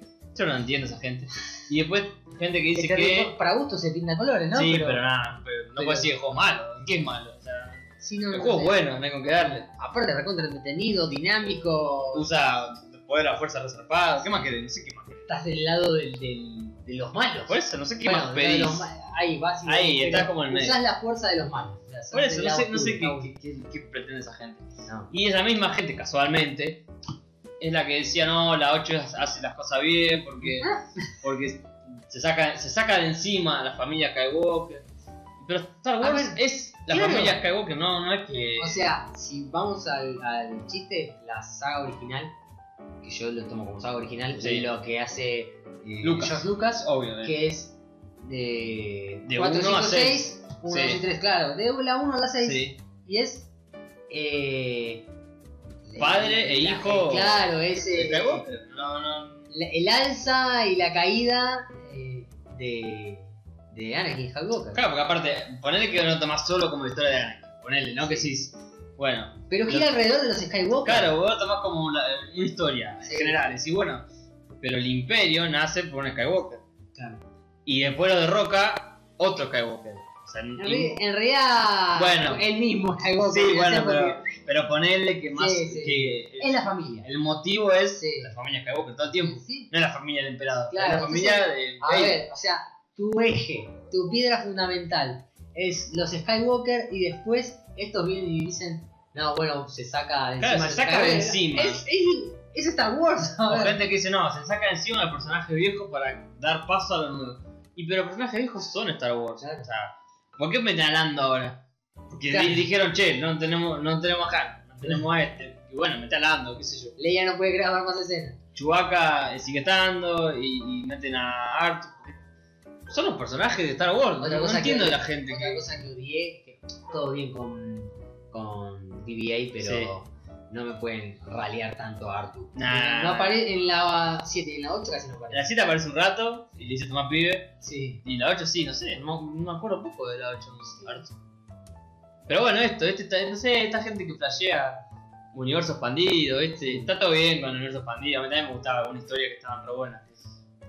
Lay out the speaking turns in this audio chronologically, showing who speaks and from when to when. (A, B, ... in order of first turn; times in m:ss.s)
0:00.3-0:03.3 A
0:02.7-0:05.0 B
0:04.5-0:09.7 A
0:05.8-0:06.1 B
0:08.0-0:08.8 B
0:09.8-0:12.3 B
0:12.1-0:15.2 A
0:15.3-0:23.3 B
0:17.5-0:18.9 A
0:19.6-0:20.8 A
0:22.1-0:26.8 A
0:24.8-0:25.1 B
0:27.6-0:34.8 A
0:30.4-0:31.1 B
0:35.4-0:38.9 A
0:36.0-0:37.4 B
0:38.5-0:42.3 B
0:43.0-0:53.5 B
0:44.4-0:44.7 A
0:46.0-0:47.4 A
0:49.2-0:51.0 A
0:52.4-0:52.8 A
0:54.1-0:55.0 B
0:55.8-0:58.4 B
0:56.0-0:59.5 A
0:59.5-1:04.8 B
1:04.7-1:09.9 A
1:08.0-1:08.3 B
1:09.5-1:11.1 B
1:10.8-1:14.0 A
1:13.0-1:13.4 B
1:14.6-1:16.6 A
1:17.0-1:17.2 B
1:17.6-1:21.0 A
1:20.6-1:24.3 B
1:21.9-1:22.4 A
1:23.2-1:32.2 A
1:25.3-1:27.1 B
1:28.0-1:28.3 B
1:29.2-1:29.7 B
1:30.7-1:43.8 B
1:40.4-1:41.8 A
1:43.4-1:56.9 A
1:49.4-1:49.6 B
1:52.3-1:52.6 B
1:57.0-1:58.4 B
1:58.5-2:02.2 A
2:02.9-2:05.6 A
2:04.2-2:15.5 B
2:09.6-2:09.9 A
2:12.5-2:13.4 A
2:15.3-2:17.5 A
2:17.6-2:18.0 B
2:18.0-2:21.1 A
2:22.3-2:24.8 A
2:25.3-2:30.1 A
2:26.6-2:26.9 B